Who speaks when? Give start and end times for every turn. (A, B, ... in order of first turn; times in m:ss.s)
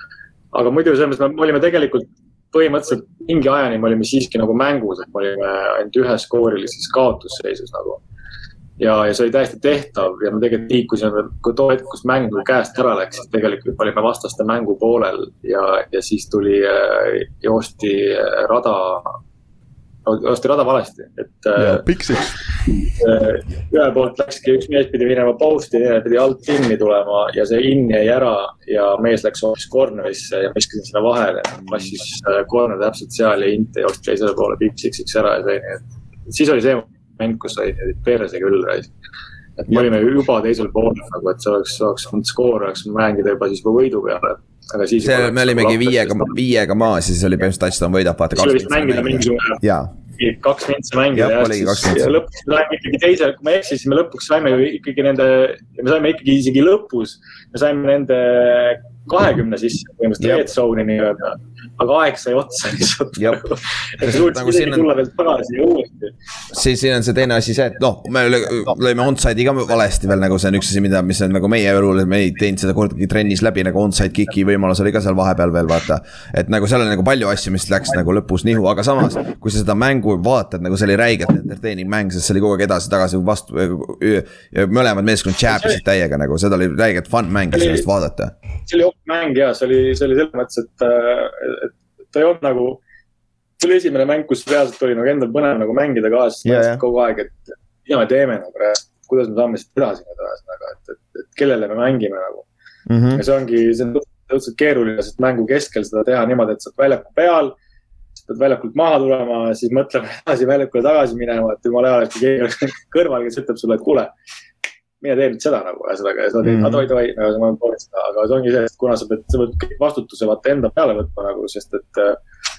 0:00.5-0:08.0 A
0:08.8-0:19.2 A
0:20.1-0:21.9 A
0:21.6-0:22.4 B
0:22.8-0:38.9 A
0:39.6-0:46.4 A
0:45.0-0:49.9 B
0:48.4-0:49.6 A
0:50.2-1:06.1 A
0:51.1-0:52.1 B
1:03.2-1:03.4 B
1:04.0-1:04.9 B
1:06.5-1:28.3 B
1:25.5-1:25.8 A
1:27.5-1:27.8 A
1:28.7-1:32.8 A
1:33.6-1:42.5 A
1:36.4-1:36.8 B
1:42.9-1:43.2 B
1:43.1-1:47.6 A
1:48.3-1:54.1 A
1:55.0-2:02.2 A
1:56.4-1:56.8 B